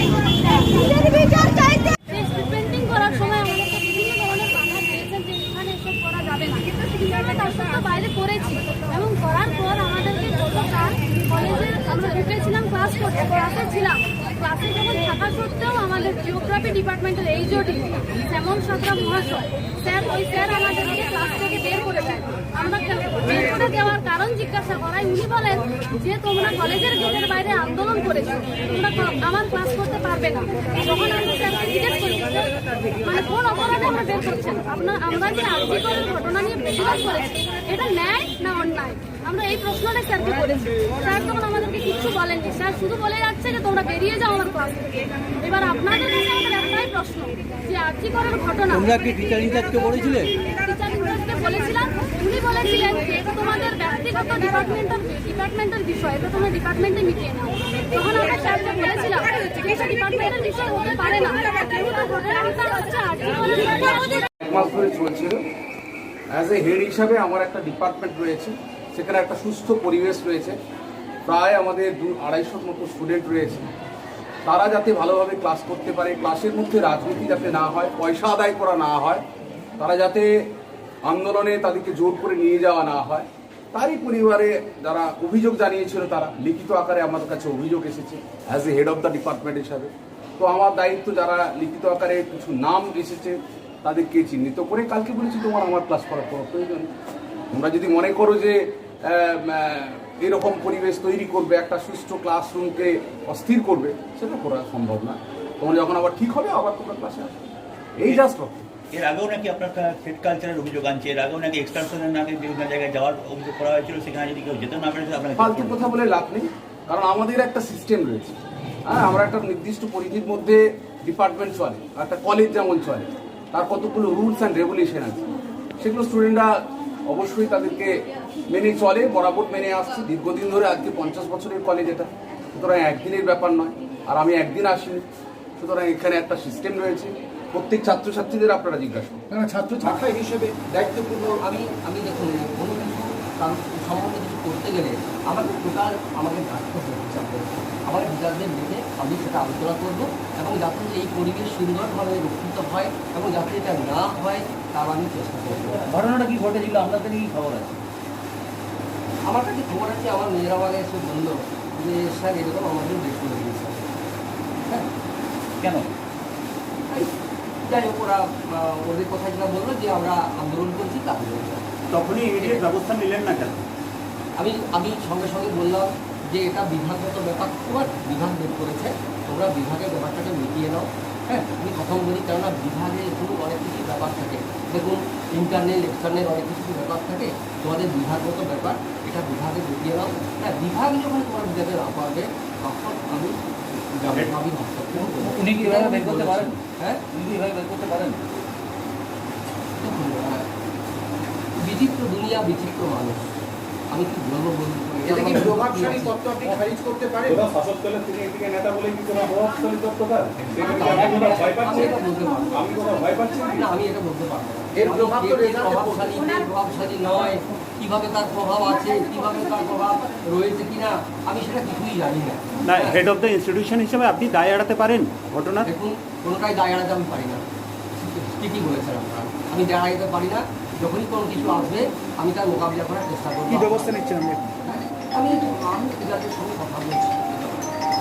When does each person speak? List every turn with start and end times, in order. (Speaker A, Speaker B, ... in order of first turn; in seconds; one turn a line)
Speaker A: 0.4-49.1
Speaker B: 48.7-50.3
Speaker A: 50.4-64.3
Speaker C: 64.4-65.4
Speaker C: 66.3-70.6
Speaker C: 71.2-73.7
Speaker C: 74.4-79.2
Speaker C: 79.8-80.5
Speaker C: 81.0-96.9
Speaker C: 97.5-108.6
Speaker B: 108.9-115.8
Speaker C: 115.4-125.2
Speaker C: 125.8-135.0
Speaker C: 135.6-139.2
Speaker D: 139.3-141.3
Speaker E: 141.3-155.9
Speaker B: 155.8-157.8
Speaker E: 159.2-163.8
Speaker B: 165.6-165.9
Speaker E: 167.6-171.6
Speaker B: 171.9-173.6
Speaker E: 172.4-172.7
Speaker E: 174.3-193.4
Speaker E: 193.9-197.0
Speaker B: 195.0-196.6
Speaker B: 197.1-198.2
Speaker E: 199.8-200.4
Speaker E: 201.6-203.2
Speaker E: 203.9-206.2
Speaker D: 205.1-207.3
Speaker C: 207.4-211.8
Speaker F: 207.9-210.1
Speaker E: 210.6-223.0
Speaker C: 212.5-213.7
Speaker D: 214.8-215.8
Speaker B: 222.7-225.7
Speaker E: 225.6-234.1
Speaker F: 233.5-234.5
Speaker E: 234.7-237.7